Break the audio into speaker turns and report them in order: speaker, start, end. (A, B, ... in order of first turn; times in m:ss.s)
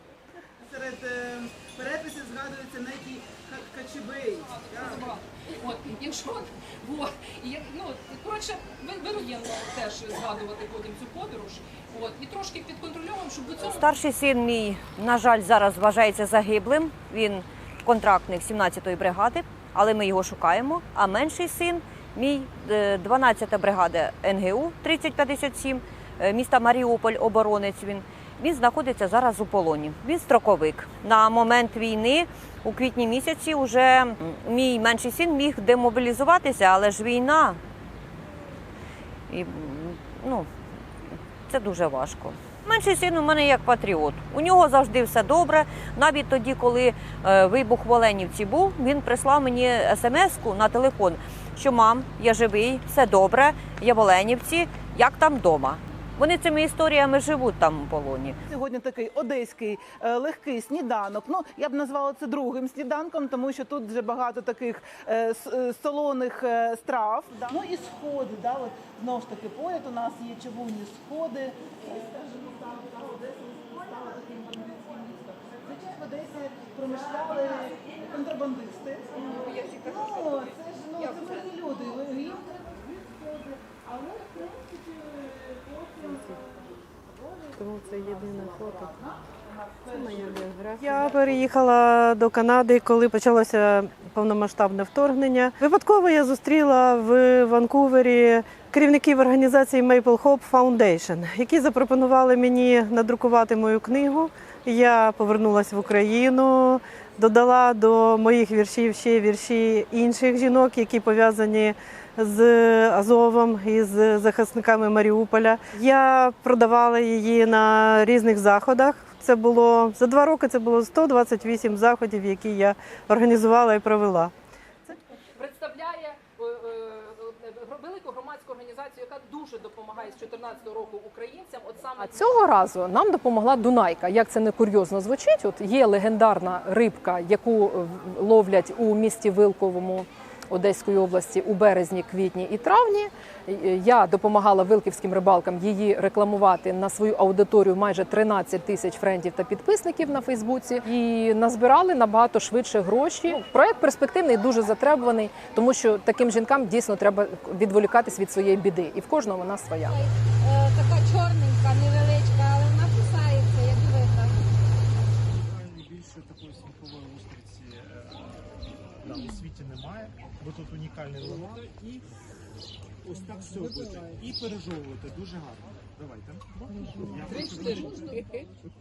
0:00.6-0:05.2 A
0:05.6-0:13.5 B
0:13.6-0:37.6 C
0:39.3-0:40.5 C
0:41.5-0:58.4 C
0:58.5-1:31.4 A
1:19.5-1:20.0 B
1:27.6-1:28.9 D
1:29.9-2:04.3 D
2:05.4-2:12.2 B
2:12.0-2:23.1 E
2:23.7-2:39.9 E
2:39.8-2:44.4 F
2:45.3-2:52.0 G
2:53.0-2:58.2 G
2:57.3-2:58.2 B